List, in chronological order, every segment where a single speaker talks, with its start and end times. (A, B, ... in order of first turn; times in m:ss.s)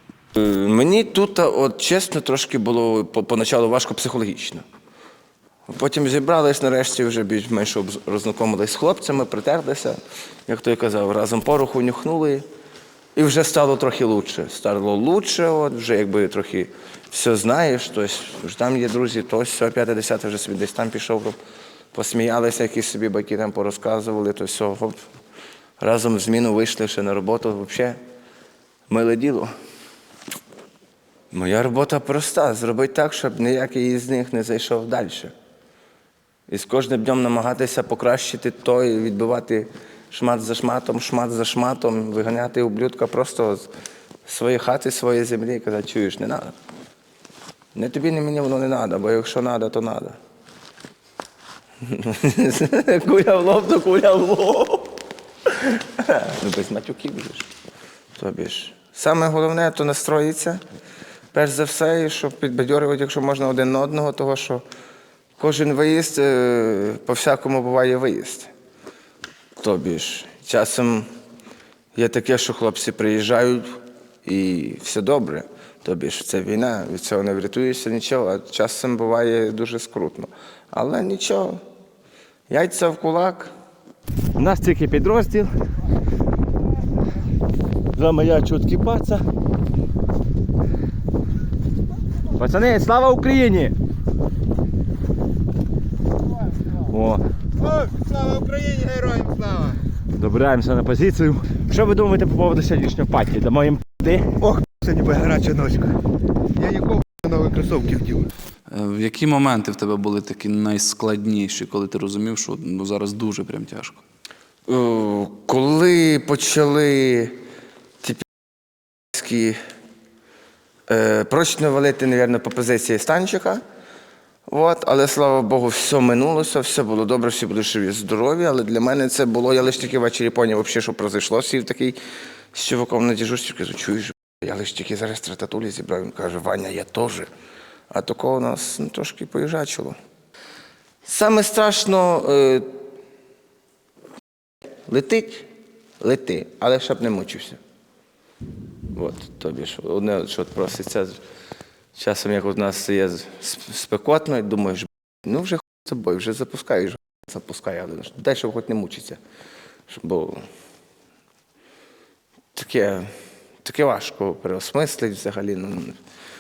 0:00.4-0:04.6 A
0:05.7-0:12.4 A
0:13.2-0:21.4 A
0:21.9-0:25.0 A
0:25.8-0:28.0 A
0:28.9-0:29.5 A
0:31.3-0:35.3 A
0:36.5-0:43.7 A
0:44.3-0:46.6 A
0:47.8-0:50.2 A
0:51.8-0:57.5 A
0:58.2-1:00.6 A
1:01.3-1:04.6 A
1:05.4-1:08.5 A
1:09.6-1:11.1 A
1:12.0-1:13.7 A
1:14.2-1:21.6 A
1:22.5-1:23.5 A
1:24.4-1:25.5 B
1:27.9-1:29.2 B
1:32.4-1:33.7 B
1:36.9-1:37.2 B
1:37.7-1:39.8 C
1:40.2-1:44.4 B
1:44.4-1:46.0 C
1:46.6-1:48.3 C
1:48.7-1:54.0 D
1:54.7-1:57.4 A
1:59.1-1:59.6 A
2:00.9-2:03.6 A
2:04.5-2:12.0 A
2:12.5-2:17.3 A
2:17.9-2:20.0 A
2:21.0-2:22.7 A
2:24.9-2:25.5 A
2:26.0-2:27.6 A
2:28.9-2:31.2 A
2:32.0-2:39.2 A
2:39.9-2:40.4 A
2:42.6-2:43.1 A
2:43.6-2:46.0 A